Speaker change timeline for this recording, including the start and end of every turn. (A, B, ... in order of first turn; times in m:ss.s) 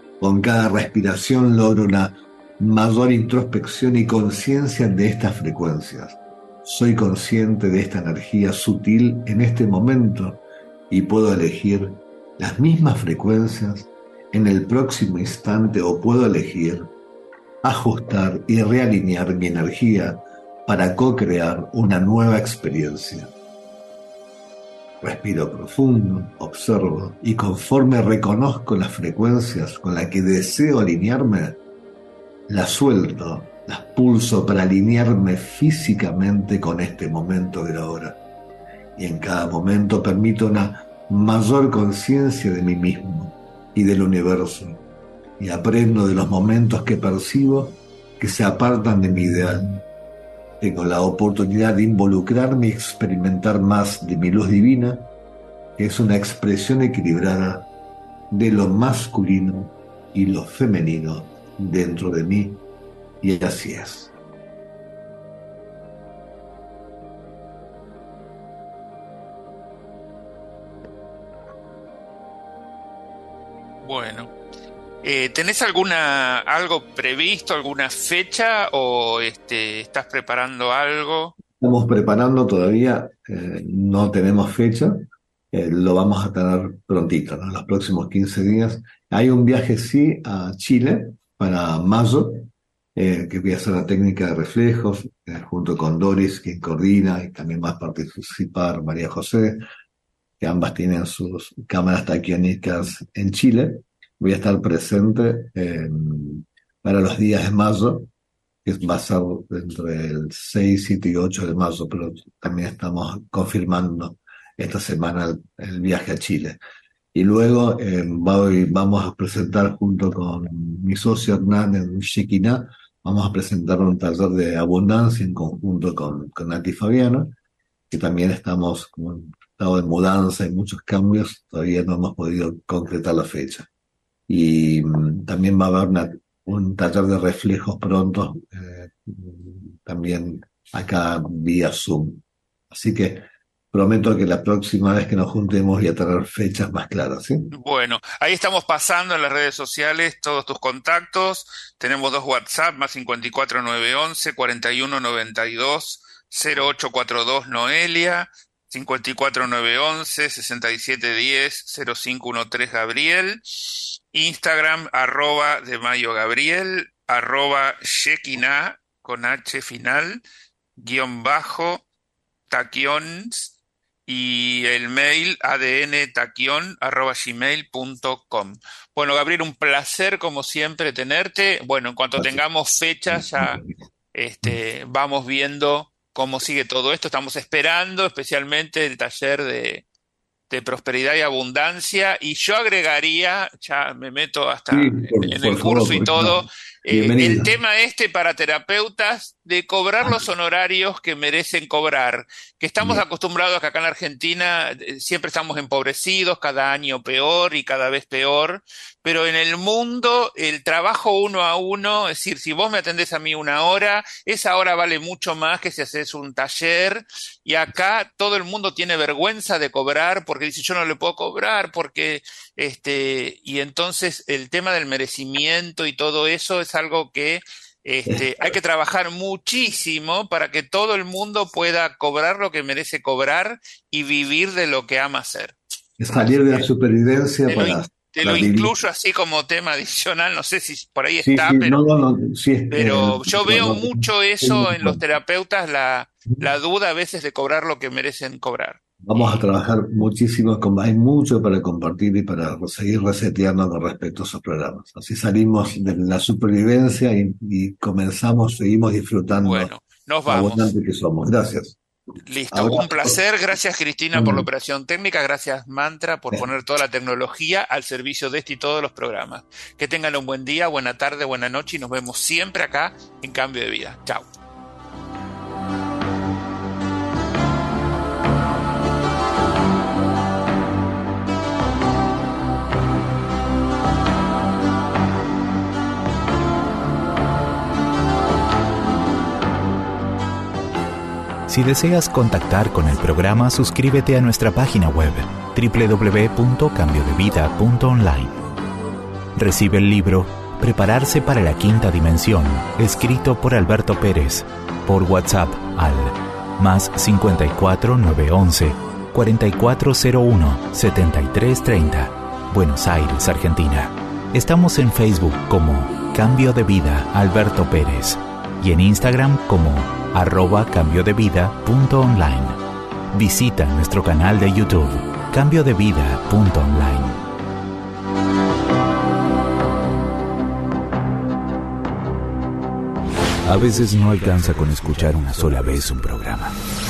0:00.2-0:16.9 A
0:17.6-0:23.3 A
0:25.0-0:31.6 A
0:32.5-0:38.2 A
0:39.0-0:44.8 A
0:45.4-0:49.8 A
0:50.6-0:55.1 A
0:55.8-0:57.7 A
0:58.3-1:02.6 A
1:03.2-1:04.1 A
1:13.8-1:14.3 B
1:15.0-1:21.4 B
1:21.6-1:39.6 A
1:40.4-1:48.1 A
1:48.6-1:56.6 A
1:57.1-2:07.3 A
2:07.9-2:13.7 A
2:14.3-2:27.5 A
2:27.5-2:50.2 B
2:50.8-2:51.9 B
2:52.5-2:53.6 B
2:54.1-3:03.6 B
3:03.1-3:03.7 A
3:04.2-3:09.9 B
3:10.5-3:55.6 B
3:14.7-3:17.6 A
3:48.1-3:48.5 A
3:56.0-3:58.7 A
3:56.1-3:56.7 B
3:57.5-4:01.9 B
4:01.2-4:05.0 A
4:02.7-4:09.4 B
4:09.0-4:19.7 A
4:19.4-4:20.7 B
4:20.3-4:21.8 A
4:22.3-4:34.3 B
4:22.5-4:23.2 A
4:24.1-4:24.5 A
4:51.5-4:58.4 C
4:59.4-5:22.6 C
5:23.1-5:27.3 C
5:33.5-5:36.6 C